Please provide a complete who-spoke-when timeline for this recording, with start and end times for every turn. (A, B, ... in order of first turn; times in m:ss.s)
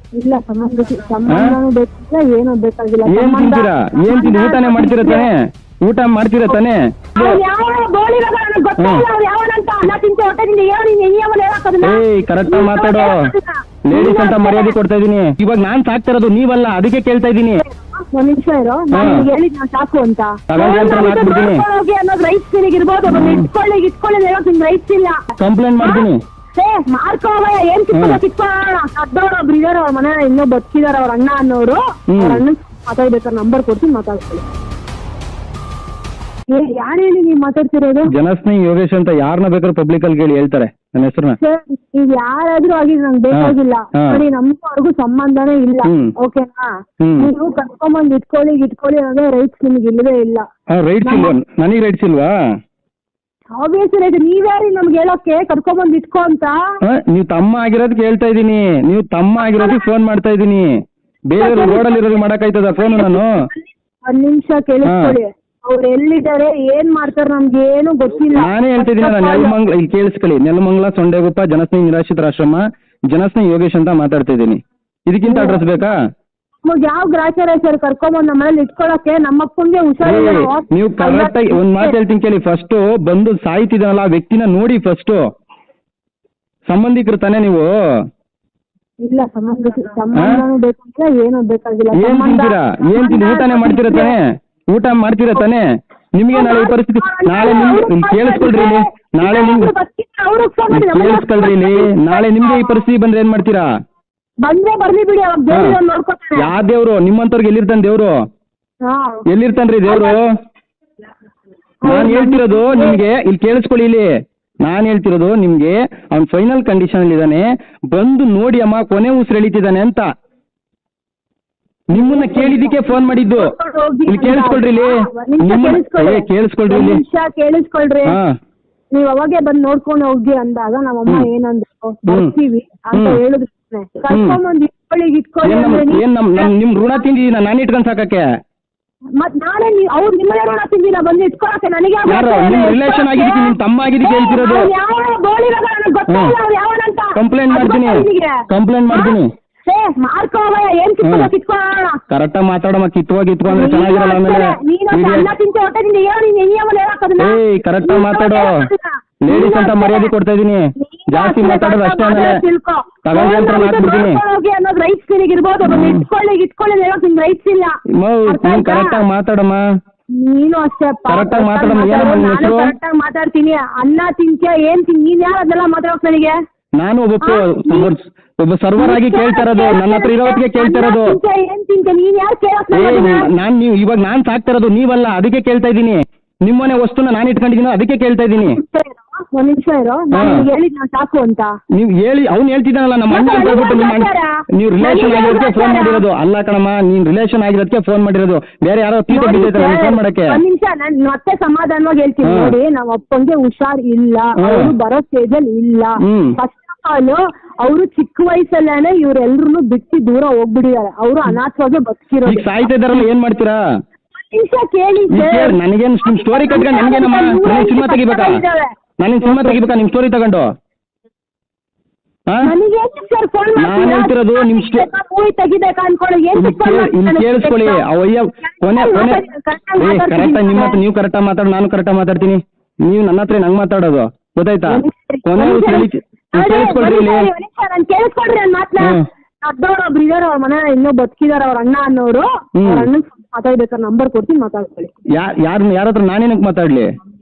0:00.2-0:05.3 A
0:01.3-0:01.6 B
0:03.1-0:07.4 B
0:07.2-0:14.8 A
0:08.8-0:09.0 B
0:11.8-0:13.3 B
0:13.9-0:17.6 B
0:17.6-0:25.2 A
0:18.9-0:19.3 B
0:20.5-0:21.6 B
0:23.1-0:23.5 B
0:25.4-0:26.2 B
0:25.8-0:34.4 A
0:27.9-0:28.2 B
0:32.1-0:32.4 B
0:36.5-0:38.1 A
0:38.1-0:41.4 B
0:41.4-0:50.4 A
0:43.3-0:44.2 B
0:45.8-0:46.1 B
0:47.0-0:47.3 B
0:50.8-0:52.3 B
0:51.0-0:51.3 A
0:53.6-0:56.6 A
0:56.9-1:00.7 B
0:59.4-0:59.8 A
1:01.3-1:03.3 B
1:01.4-1:02.0 A
1:02.8-1:09.5 A
1:04.9-1:05.2 B
1:08.3-1:15.9 B
1:15.2-1:15.6 A
1:16.6-1:22.0 A
1:20.0-1:25.2 B
1:26.7-1:27.7 B
1:29.0-1:34.2 A
1:30.2-1:30.4 B
1:32.0-1:35.6 B
1:36.2-1:39.7 B
1:36.3-1:42.8 A
1:40.7-1:43.7 B
1:44.4-1:46.5 A
1:45.5-1:45.8 B
1:46.4-1:48.1 B
1:48.8-1:49.2 A
1:49.3-1:50.2 B
1:49.9-1:50.2 A
1:51.8-1:53.0 A
1:51.9-1:54.1 B
1:54.6-2:00.1 B
2:01.9-2:03.5 B
2:01.9-2:08.2 A
2:04.1-2:07.0 B
2:08.1-2:08.3 B
2:08.9-2:16.5 A
2:12.9-2:13.2 B
2:14.1-2:14.4 B
2:15.4-2:18.2 B
2:19.2-2:32.0 A
2:22.1-2:24.7 B
2:26.1-2:26.3 B
2:27.2-2:29.3 B
2:31.0-2:31.3 B
2:32.1-2:35.3 B
2:33.5-2:40.1 A
2:37.2-2:38.6 B
2:39.2-2:42.4 B
2:40.8-2:49.0 A
2:43.0-2:44.2 B
2:45.6-2:46.0 B
2:48.0-2:49.6 B
2:50.2-2:56.4 A
2:51.1-2:52.7 B
2:56.8-3:01.2 B
2:57.2-2:57.9 A
2:58.8-3:03.3 A
3:02.7-3:08.6 B
3:08.4-3:11.5 A
3:10.1-3:10.5 B
3:11.7-3:20.4 B
3:13.1-3:16.0 A
3:19.1-3:32.6 A
3:22.2-3:22.6 B
3:24.4-3:24.7 B
3:26.0-3:26.4 B
3:32.2-3:33.6 B
3:34.2-3:38.7 A
3:35.1-3:38.4 B
3:39.0-3:40.5 B
3:39.2-3:39.6 A
3:42.4-3:47.8 A
3:43.6-3:44.8 B
3:46.3-3:49.2 B
3:48.5-3:50.8 A
3:49.8-3:57.3 B
3:54.7-4:04.9 A
4:02.6-4:02.9 B
4:05.2-4:06.9 B